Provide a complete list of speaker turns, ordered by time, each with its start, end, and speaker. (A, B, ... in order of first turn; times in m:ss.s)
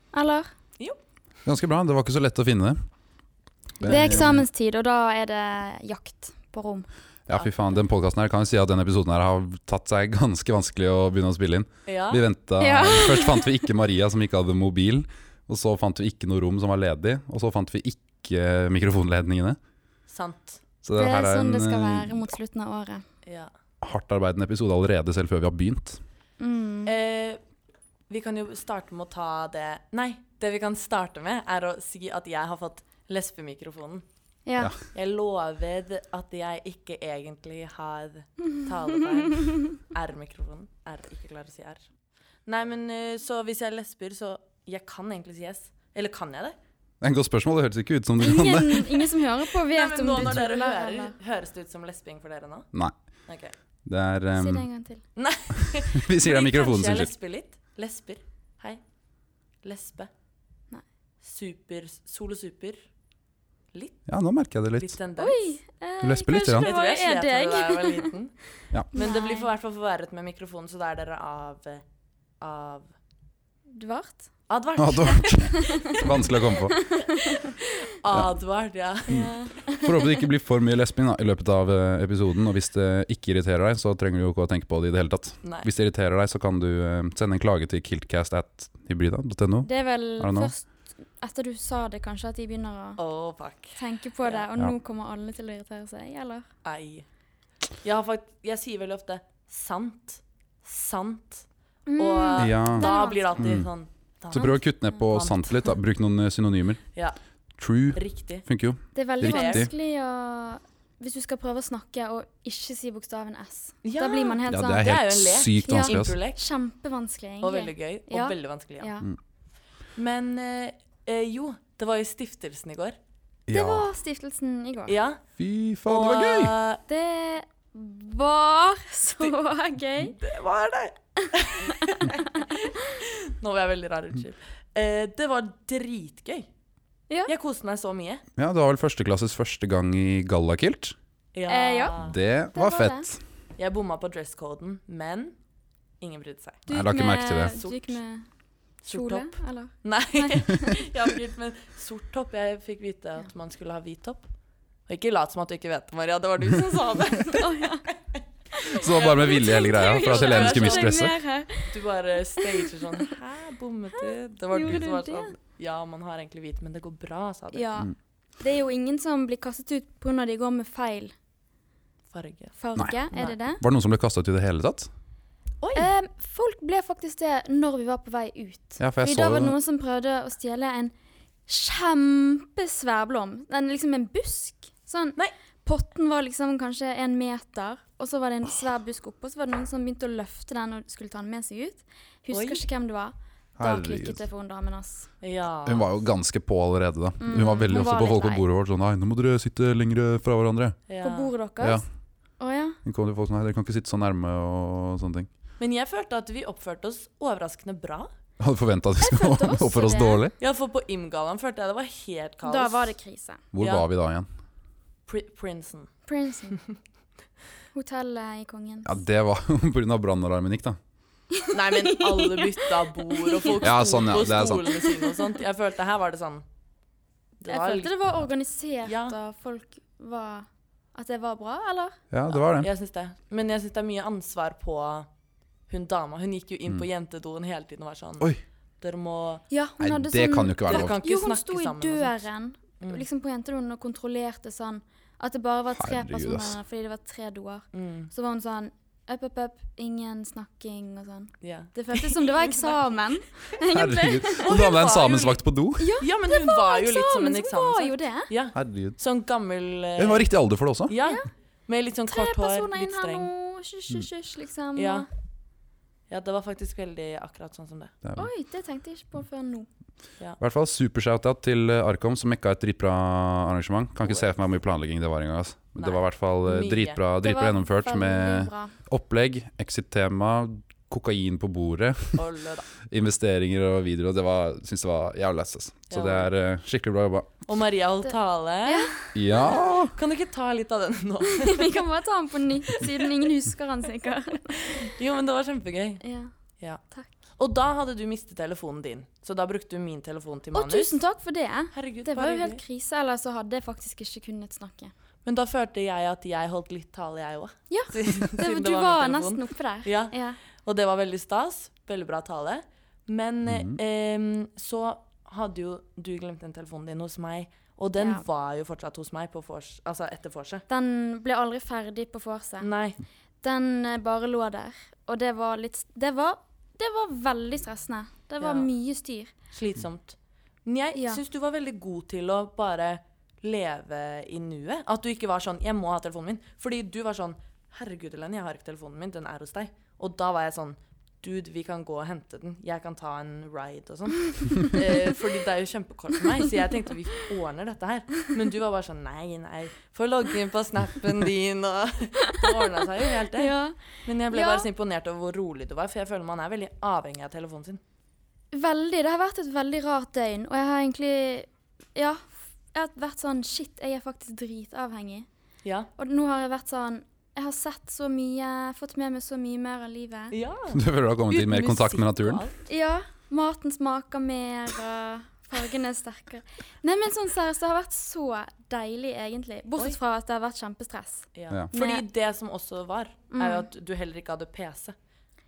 0:00.1-0:00.5 A
0:01.5-0:02.8 B
0:03.8-0:04.4 B
0:03.8-0:06.9 A
0:03.9-0:04.3 C
0:07.3-0:19.6 B
0:11.9-0:12.3 C
0:12.6-0:13.6 A
0:20.1-0:20.6 C
0:20.8-0:22.3 B
0:20.9-0:23.0 A
0:23.2-0:23.5 C
0:23.8-0:26.0 B
0:26.4-0:26.9 A
0:26.9-0:27.4 C
0:28.1-0:34.0 C
0:34.5-0:34.7 A
0:34.9-0:41.8 C
0:42.5-0:46.6 C
0:47.0-0:49.0 B
0:48.2-0:51.2 A
0:49.6-0:52.7 C
0:53.3-0:53.5 C
0:53.9-0:54.7 B
0:54.4-0:55.0 A
0:55.2-0:58.8 C
0:55.6-0:57.1 B
0:59.6-1:00.1 C
1:01.2-1:02.8 C
1:03.7-1:04.1 C
1:04.1-1:05.0 B
1:04.8-1:05.6 C
1:05.2-1:08.1 A
1:06.0-1:06.7 B
1:06.5-1:11.8 C
1:08.9-1:09.5 A
1:12.4-1:12.9 C
1:13.7-1:14.3 A
1:14.5-1:16.5 C
1:14.8-1:16.9 B
1:15.4-1:16.0 A
1:16.6-1:17.5 A
1:17.2-1:19.4 C
1:19.1-1:20.1 A
1:19.1-1:30.5 B
1:25.4-1:25.7 C
1:29.6-1:33.0 A
1:33.0-1:34.4 C
1:33.8-1:36.5 A
1:36.6-1:37.0 C
1:37.8-1:41.5 C
1:41.9-1:43.6 A
1:42.0-1:45.8 C
1:42.4-1:43.7 B
1:44.3-1:46.8 B
1:47.6-1:49.7 B
1:47.9-1:48.5 C
1:48.9-1:54.9 A
1:49.2-1:49.7 C
1:53.8-1:56.4 C
1:54.5-1:56.2 B
1:55.6-1:59.1 A
1:57.4-1:58.9 C
2:00.0-2:03.0 C
2:03.5-2:03.9 B
2:03.5-2:05.0 A
2:04.9-2:05.2 C
2:05.4-2:06.6 B
2:05.9-2:06.8 C
2:06.9-2:10.2 A
2:10.0-2:16.5 C
2:11.2-2:12.1 A
2:17.3-2:18.2 C
2:18.4-2:21.0 B
2:21.3-2:22.2 C
2:21.5-2:21.9 A
2:22.0-2:23.2 B
2:22.5-2:23.1 A
2:23.6-2:25.4 C
2:26.0-2:26.7 C
2:26.7-2:28.3 A
2:26.7-2:27.6 B
2:27.4-2:28.0 C
2:28.8-2:30.8 A
2:28.8-2:34.3 C
2:34.9-2:37.6 C
2:37.2-2:37.9 A
2:38.6-2:43.1 A
2:38.7-2:41.2 B
2:38.8-2:41.1 C
2:41.6-2:47.7 C
2:44.0-2:45.3 A
2:47.5-2:51.1 A
2:52.1-2:52.6 C
2:52.6-2:53.6 A
2:53.6-2:54.9 B
2:55.6-2:55.9 C
2:55.8-3:00.9 A
2:58.8-2:59.5 B
3:01.5-3:15.1 A
3:12.3-3:12.6 C
3:13.6-3:14.2 B
3:15.2-3:15.9 C
3:15.6-3:20.8 B
3:17.2-3:18.4 A
3:20.9-3:21.3 C
3:21.0-3:21.8 A
3:22.4-3:22.8 A
3:22.8-3:25.3 B
3:25.6-3:28.1 C
3:28.4-3:30.4 B
3:29.0-3:30.2 A
3:30.4-3:32.9 C
3:32.4-3:33.4 A
3:33.5-3:34.3 B
3:33.6-3:33.9 C
3:35.1-3:36.0 C
3:36.1-3:36.6 A
3:37.7-3:38.9 A
3:38.8-3:40.8 B
3:41.4-3:43.7 A
3:41.5-3:46.4 C
3:43.6-3:44.6 B
3:44.5-3:45.1 A
3:47.4-3:48.0 C
3:47.5-3:52.0 A
3:48.8-3:49.2 C
3:52.1-3:52.7 B
3:52.5-3:55.1 C
3:55.7-3:59.4 C
3:59.5-4:14.6 A
3:59.8-4:01.0 B
4:00.7-4:02.2 C
4:05.8-4:06.6 B
4:07.7-4:08.1 C
4:11.4-4:12.7 C
4:13.7-4:16.0 B
4:14.4-4:15.4 C
4:15.8-4:18.3 A
4:16.0-4:23.3 C
4:18.6-4:19.0 B
4:20.0-4:20.9 B
4:22.1-4:25.1 A
4:24.8-4:25.1 C
4:26.1-4:27.9 C
4:28.0-4:28.3 B
4:28.2-4:29.7 A
4:30.4-4:42.2 B
4:35.8-4:37.0 C
4:37.2-4:38.7 A
4:42.2-4:42.7 C
4:42.9-4:47.4 B
4:45.9-4:46.3 C
4:47.5-4:51.8 C
4:48.6-4:48.9 A
4:49.1-4:50.0 B
4:51.3-4:54.9 A
4:52.8-4:53.1 C
4:54.6-4:56.0 C
4:56.0-4:56.3 A
4:56.6-5:01.0 C
5:00.5-5:04.9 A
5:01.7-5:02.6 C
5:05.2-5:20.6 C
5:07.7-5:10.4 A
5:13.4-5:13.8 B
5:18.0-5:18.2 A
5:20.7-5:22.7 A
5:22.6-5:23.0 C
5:23.4-5:29.3 A
5:28.4-5:28.7 C
5:29.5-5:57.8 C
5:31.0-5:31.2 A
5:44.6-5:45.0 A
5:53.4-5:54.7 A
5:58.5-6:05.3 A
6:05.6-6:05.9 C
6:06.0-6:10.4 A
6:10.3-6:12.6 C
6:10.7-6:12.4 B
6:12.7-6:22.0 A
6:21.4-6:25.0 C
6:23.3-6:23.7 A